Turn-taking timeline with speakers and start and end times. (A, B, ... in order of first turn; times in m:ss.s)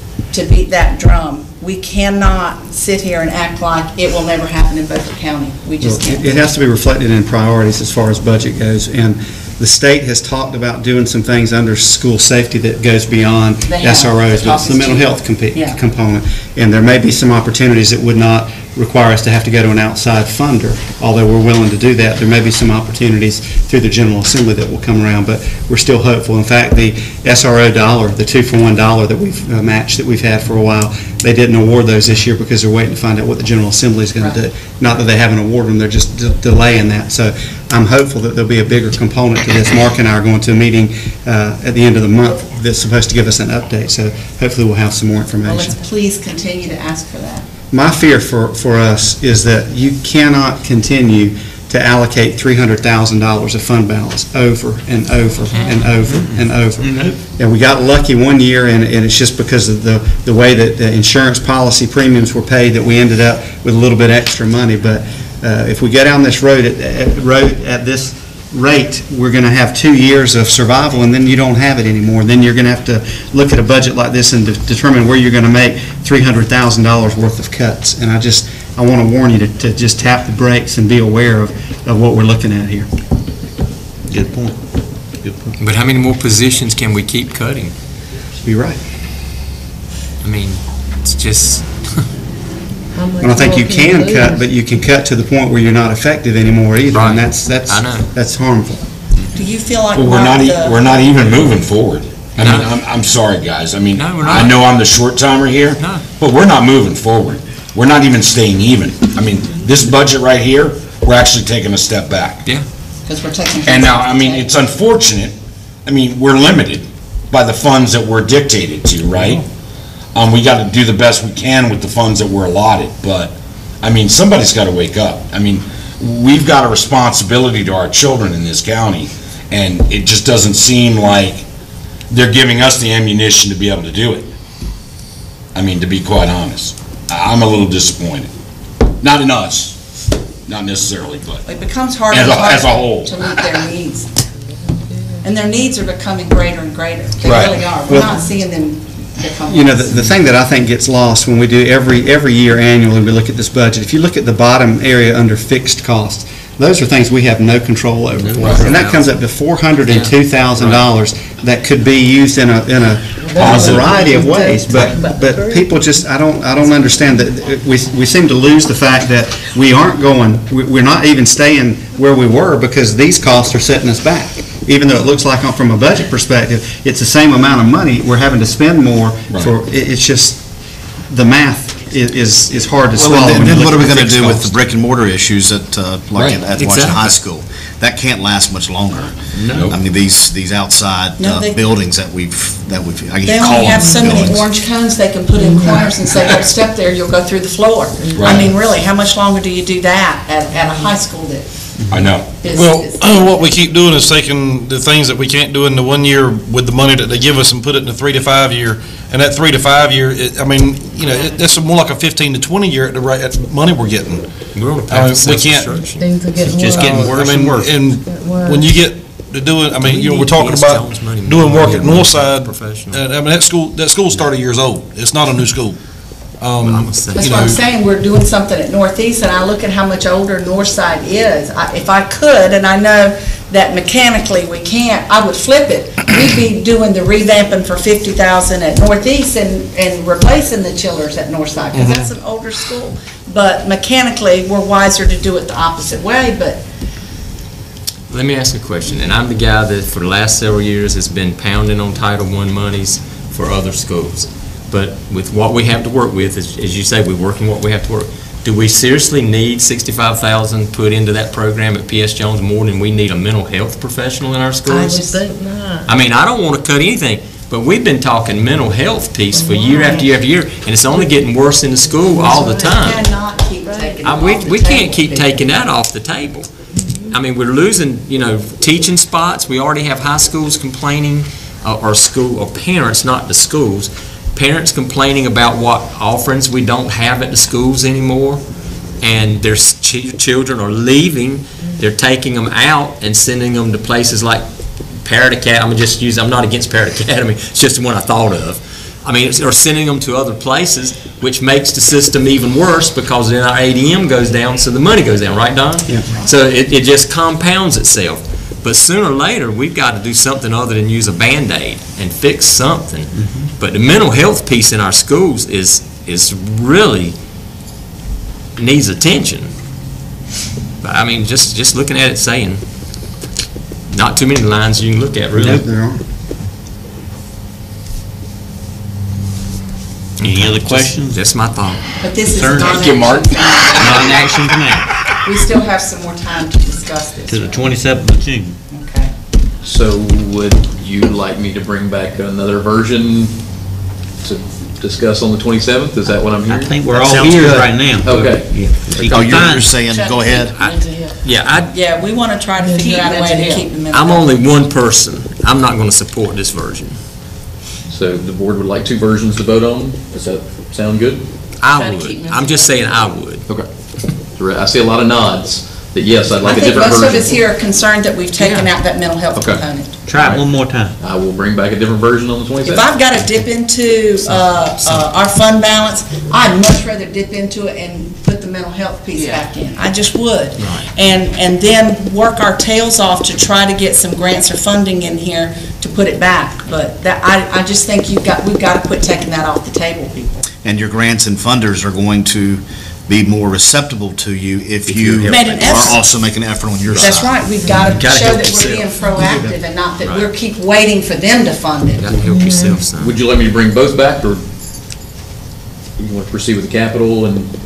0:00.3-0:06.4 A
0:05.8-0:45.8 B
0:13.6-0:15.8 A
0:45.4-0:47.5 A
0:47.7-1:22.9 B
0:56.0-0:57.2 C
1:24.1-1:25.6 C
1:25.6-1:27.7 D
1:28.4-1:28.8 B
1:30.2-1:32.1 D
1:32.9-1:34.5 E
1:33.2-1:38.8 B
1:36.9-1:38.1 D
1:39.3-1:41.1 A
1:39.9-1:52.4 F
1:42.4-1:42.8 D
1:44.0-1:44.5 D
1:45.8-1:46.0 D
1:53.0-1:54.5 A
1:53.6-1:55.3 F
1:55.8-1:59.4 F
2:00.1-2:11.4 F
2:12.1-2:14.3 F
2:15.5-2:18.3 F
2:19.0-2:19.8 F
2:20.5-2:21.4 F
2:21.4-2:24.1 A
2:22.1-2:23.5 F
2:24.5-2:25.2 E
2:25.2-2:30.0 A
2:27.2-2:27.7 F
2:27.9-2:28.2 B
2:29.5-3:00.5 B
2:38.2-2:38.6 C
2:38.3-2:39.2 D
2:39.8-2:40.9 D
2:43.2-2:47.2 E
2:43.5-2:43.8 F
2:59.3-2:59.6 F
3:01.1-3:04.5 B
3:03.0-3:14.4 G
3:06.1-3:06.5 F
3:06.5-3:07.1 D
3:09.3-3:09.7 C
3:09.5-3:09.8 F
3:11.2-3:11.6 A
3:13.2-3:21.5 A
3:13.7-3:14.2 E
3:15.3-3:15.9 E
3:18.0-3:18.4 E
3:18.1-3:18.5 F
3:20.6-3:20.9 E
3:21.9-3:22.4 F
3:22.3-3:23.5 A
3:22.4-3:35.7 H
3:34.5-3:36.1 D
3:35.9-3:37.2 E
3:36.4-3:37.7 C
3:36.7-3:47.6 H
3:36.8-3:37.4 G
3:37.7-3:38.8 E
3:39.8-3:43.0 D
3:46.6-3:47.5 D
3:47.1-4:06.6 A
4:08.1-4:25.1 D
4:24.7-4:25.9 E
4:25.9-4:33.1 D
4:29.3-4:30.2 E
4:30.9-4:31.2 E
4:31.8-4:32.7 E
4:32.4-4:35.4 A
4:33.6-4:34.0 E
4:34.0-4:36.5 D
4:36.7-4:37.2 E
4:37.1-5:17.2 D
5:05.8-5:06.1 B
5:13.2-5:13.5 C
5:18.6-5:19.5 D
5:20.8-5:23.2 D
5:23.9-5:25.7 D
5:25.3-5:26.0 B
5:30.2-5:32.0 D
5:30.2-5:31.2 C
5:32.0-5:34.2 A
5:32.2-5:33.0 C
5:33.7-5:34.9 C
5:35.2-5:37.7 A
5:37.3-5:38.6 C
5:38.7-5:39.1 A
5:39.6-5:49.5 I
5:46.5-5:49.7 C
5:47.0-5:47.6 G
5:49.0-5:50.5 G
5:49.9-5:51.1 A
5:50.5-5:51.7 D
5:50.7-5:51.1 E
5:51.7-5:54.3 A
5:52.6-5:53.6 E
5:53.9-5:57.0 D
5:57.9-6:01.5 I
6:01.6-6:03.5 D
6:01.8-6:02.4 E
6:03.5-6:07.4 I
6:06.4-6:10.0 A
6:08.4-6:08.7 D
6:09.3-6:12.8 I
6:10.0-6:10.9 C
6:12.6-6:30.4 A
6:19.2-6:19.4 D
6:20.6-6:20.9 D
6:30.6-6:37.4 G
6:34.9-6:35.3 D
6:35.3-6:36.1 A
6:35.4-6:35.8 C
6:36.9-6:42.1 A
6:38.2-6:38.8 D
6:39.2-6:39.5 B
6:40.0-6:40.3 D
6:42.0-6:43.2 D
6:42.2-6:42.8 E
6:43.0-6:44.4 I
6:46.0-6:47.5 I